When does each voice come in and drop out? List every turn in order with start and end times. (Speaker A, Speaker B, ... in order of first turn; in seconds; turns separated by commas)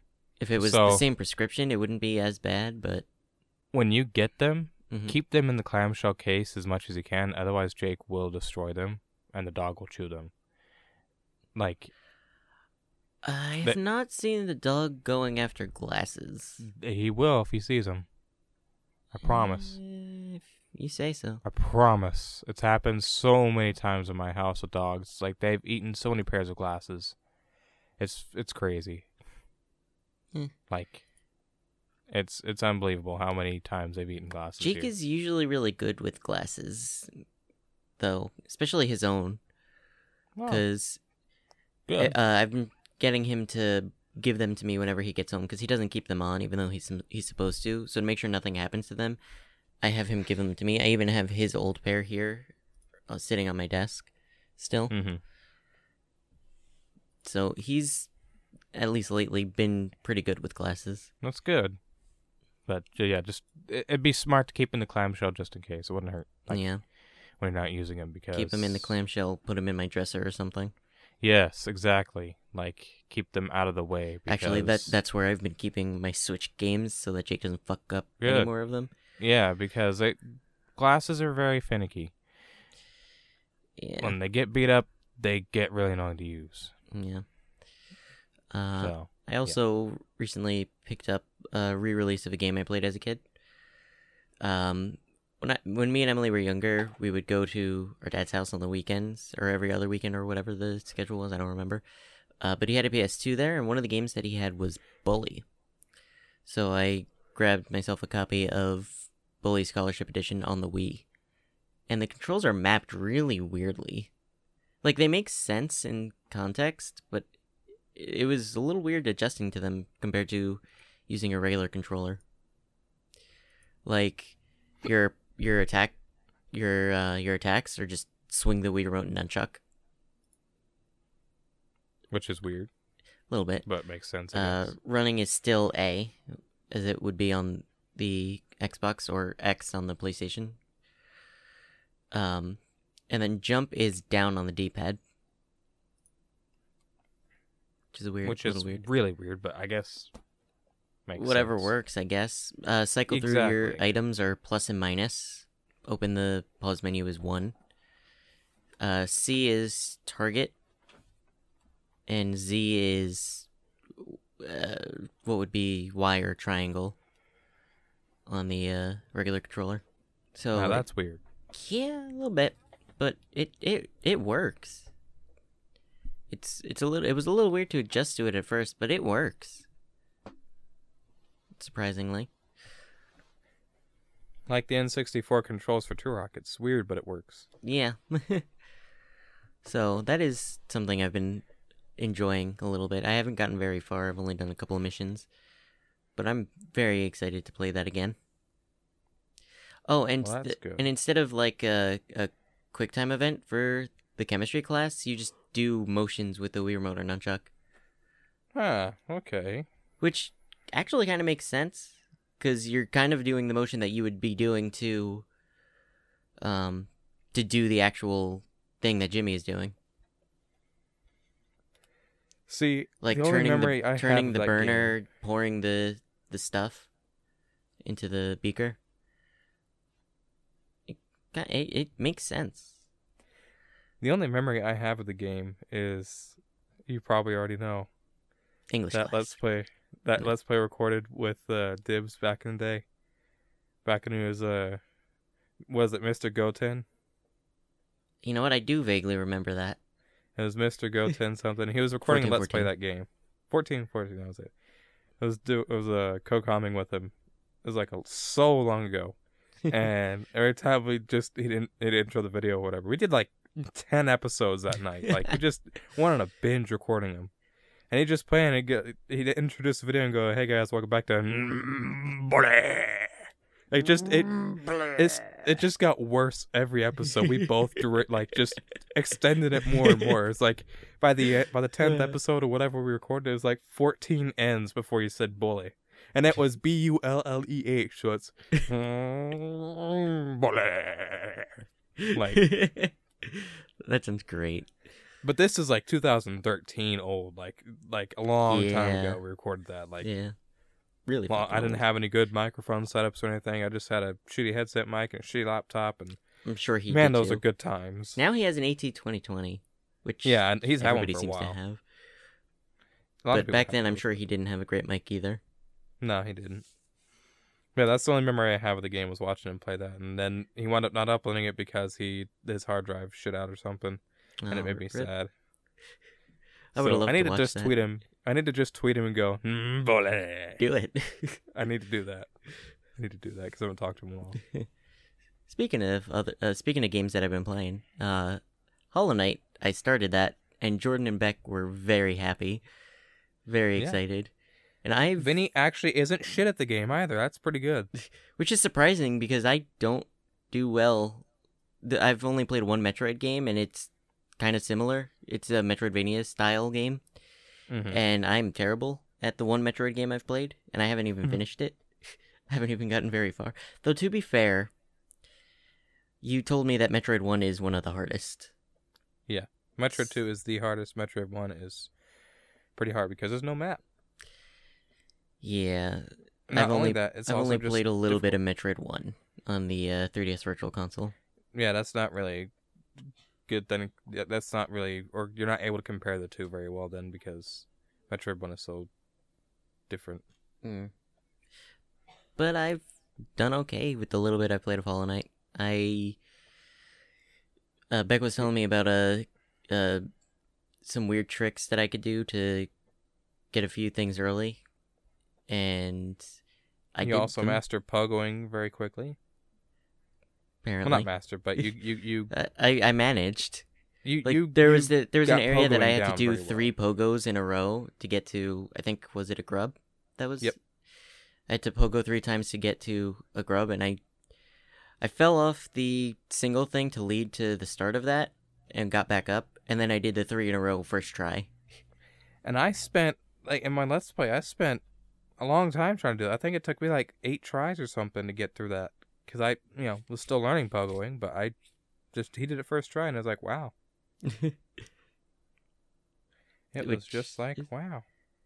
Speaker A: 0.4-3.1, Speaker B: 0.5-1.0, Speaker B: 3.7-10.3, Speaker A: 4.9-5.2, Speaker B: 11.6-11.9, Speaker A: 13.2-16.6, Speaker B: 16.6-18.1, Speaker B: 19.1-19.8, Speaker A: 19.2-21.4, Speaker B: 21.4-27.2, Speaker B: 28.0-29.1, Speaker B: 30.7-31.0, Speaker B: 32.1-34.9, Speaker A: 34.6-37.2, Speaker A: 38.0-39.4, Speaker B: 40.4-40.6, Speaker A: 40.5-41.0, Speaker B: 41.9-42.1, Speaker A: 42.0-49.2, Speaker A: 49.8-52.5, Speaker A: 53.1-54.9, Speaker B: 54.9-55.2, Speaker A: 57.2-58.1, Speaker A: 58.7-61.1, Speaker B: 61.2-61.8, Speaker B: 62.7-66.6, Speaker A: 66.5-66.8, Speaker B: 67.4-68.9, Speaker A: 68.3-70.7, Speaker B: 71.2-75.0, Speaker A: 74.3-78.9, Speaker B: 78.2-78.5, Speaker B: 79.2-82.1, Speaker A: 83.8-84.2, Speaker B: 84.0-86.7, Speaker A: 86.9-87.3, Speaker A: 88.5-93.2, Speaker B: 88.8-89.6, Speaker A: 94.4-101.8, Speaker A: 102.4-105.5, Speaker A: 106.5-111.1, Speaker A: 111.9-114.1, Speaker A: 114.8-117.3, Speaker A: 118.0-122.2, Speaker A: 123.8-126.0, Speaker A: 126.5-129.6, Speaker B: 132.1-132.7, Speaker A: 133.3-133.7, Speaker B: 133.7-134.7, Speaker A: 134.3-136.2, Speaker A: 136.7-140.6, Speaker A: 142.1-145.0, Speaker A: 147.9-148.8, Speaker B: 148.2-150.1, Speaker B: 151.1-151.7, Speaker A: 151.2-157.6, Speaker B: 153.1-153.8, Speaker A: 158.8-160.6, Speaker A: 162.1-163.5, Speaker A: 164.0-167.0, Speaker A: 168.3-169.8, Speaker A: 170.3-170.9, Speaker B: 170.5-171.2, Speaker A: 171.5-174.9, Speaker A: 176.3-179.7, Speaker A: 181.6-182.3, Speaker B: 184.5-187.5, Speaker A: 187.6-188.5, Speaker A: 189.6-191.5, Speaker A: 192.0-195.3, Speaker A: 196.2-198.2, Speaker A: 199.9-207.5, Speaker B: 200.2-200.9, Speaker B: 208.5-209.7, Speaker A: 210.0-215.2, Speaker A: 216.4-219.8, Speaker B: 222.5-224.9, Speaker A: 223.0-226.9, Speaker A: 227.8-228.8, Speaker A: 230.9-232.8, Speaker B: 234.0-237.9, Speaker A: 238.7-239.4, Speaker B: 238.9-242.8, Speaker B: 243.8-244.8, Speaker B: 245.7-246.8, Speaker A: 248.2-249.8, Speaker B: 250.4-254.5, Speaker A: 252.1-252.7, Speaker B: 255.2-257.1, Speaker B: 257.6-267.3, Speaker B: 267.9-291.6, Speaker A: 274.3-275.3, Speaker A: 279.8-280.1, Speaker A: 281.9-282.1, Speaker A: 292.0-294.9, Speaker B: 292.1-292.4, Speaker B: 295.2-300.1, Speaker A: 298.5-299.2, Speaker A: 300.0-300.4, Speaker A: 301.1-301.8, Speaker B: 301.3-306.2, Speaker A: 306.4-307.4, Speaker B: 306.9-308.2, Speaker A: 308.2-311.8, Speaker B: 310.2-311.6, Speaker B: 313.2-314.0, Speaker A: 313.3-315.4, Speaker B: 316.0-316.6, Speaker B: 317.8-325.3, Speaker A: 324.4-325.1, Speaker A: 326.7-327.7, Speaker B: 326.8-330.6, Speaker A: 330.6-331.4, Speaker B: 331.5-332.3, Speaker B: 332.9-334.4, Speaker A: 335.5-338.4, Speaker A: 338.9-342.6, Speaker A: 343.4-344.3, Speaker A: 344.8-345.3, Speaker B: 345.2-347.9, Speaker A: 348.0-351.2, Speaker A: 351.8-357.0, Speaker B: 357.7-358.0, Speaker A: 357.9-364.7, Speaker A: 366.2-368.5, Speaker B: 369.3-371.9, Speaker B: 372.8-373.8, Speaker A: 375.4-381.1, Speaker B: 376.5-378.4, Speaker B: 381.5-388.9, Speaker B: 389.9-390.2, Speaker A: 390.6-390.9, Speaker A: 392.4-392.8, Speaker A: 393.4-396.2, Speaker A: 397.9-400.1, Speaker A: 400.8-402.7, Speaker A: 403.5-404.6, Speaker A: 405.5-406.2, Speaker A: 406.9-407.6, Speaker B: 407.0-409.2, Speaker A: 410.6-411.7, Speaker B: 410.8-412.3, Speaker A: 412.3-413.7, Speaker B: 414.1-416.7, Speaker A: 414.2-420.5, Speaker A: 421.5-424.0, Speaker A: 425.0-431.5, Speaker B: 432.4-434.8, Speaker B: 435.4-441.5, Speaker B: 442.1-443.7, Speaker A: 444.2-444.6, Speaker B: 446.7-448.0, Speaker A: 446.8-447.3